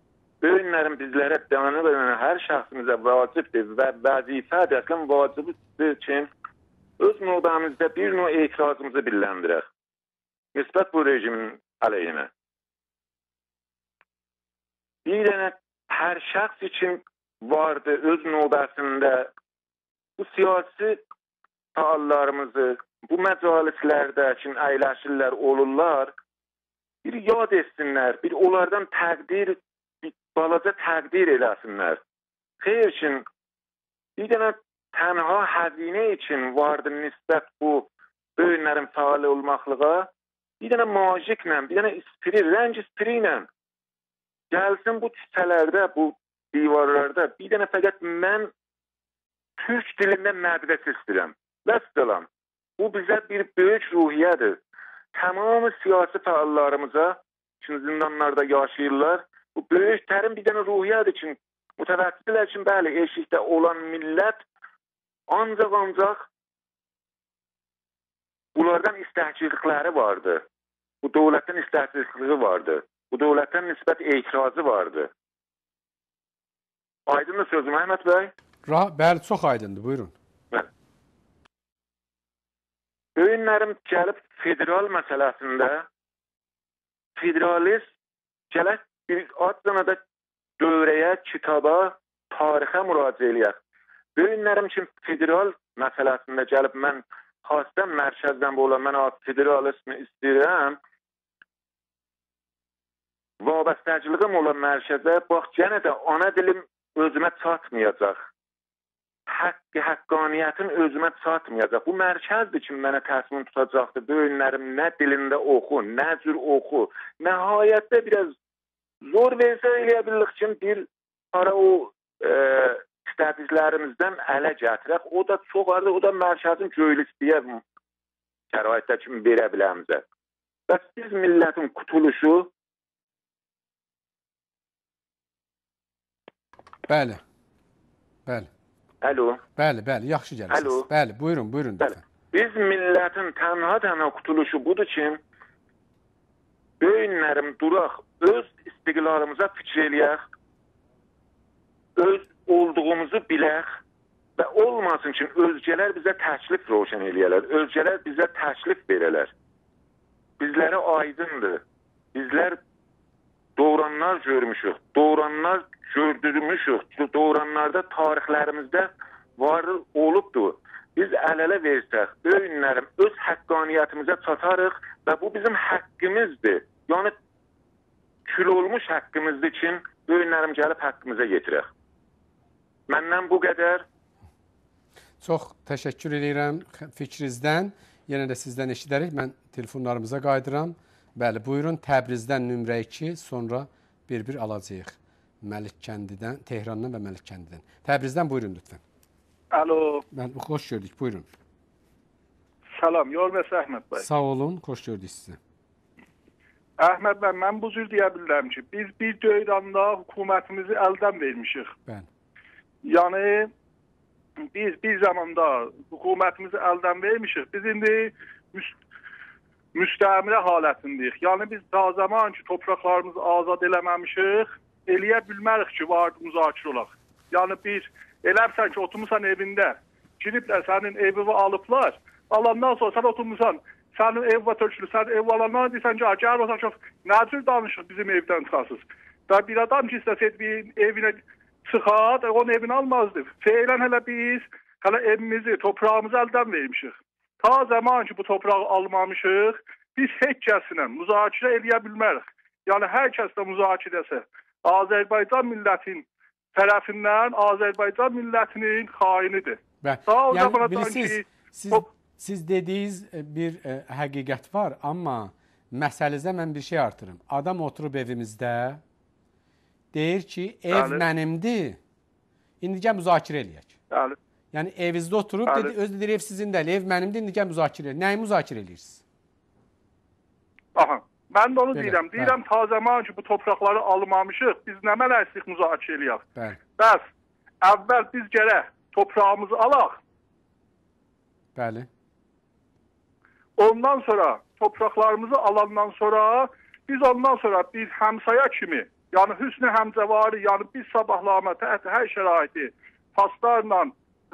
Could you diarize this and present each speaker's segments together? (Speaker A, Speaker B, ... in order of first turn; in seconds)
Speaker A: 0.4-6.3, 7.0-9.7, 10.6-12.3, 15.1-19.3, 20.2-21.0, 21.8-26.1, 27.0-32.0, 32.6-33.2, 34.2-40.1, 40.6-43.5, 44.5-48.5, 49.6-52.3, 52.8-54.6, 55.1-64.4, 65.3-66.3, 68.5-70.4, 71.0-75.1, 77.1-78.3, 83.2-85.8, 87.2-87.8, 88.5-90.0, 90.6-93.6, 94.2-100.8, 103.4-108.3, 109.3-118.3, 119.0-127.6, 128.5-130.0, 130.7-132.5, 139.0-139.4, 140.5-140.8, 142.3-145.2, 146.8-150.2, 152.0-153.8, 154.4-159.3, 160.4-161.6, 162.1-162.6, 163.6-177.1, 178.3-181.7, 182.9-183.8
Speaker B: 78.7-80.1, 136.9-137.2, 139.6-142.0, 185.2-198.8, 200.1-201.3, 204.0-205.4, 259.8-268.8, 269.9-271.8, 272.6-273.7, 274.5-279.0, 281.7-282.4, 291.6-291.9
Speaker C: 199.5-200.0, 202.8-204.1, 206.8-211.7, 212.8-213.5, 214.5-218.8, 219.7-261.9, 270.7-271.0, 273.9-274.2, 275.4-275.7, 280.7-286.2, 286.8-287.1, 287.6-290.0, 293.6-303.9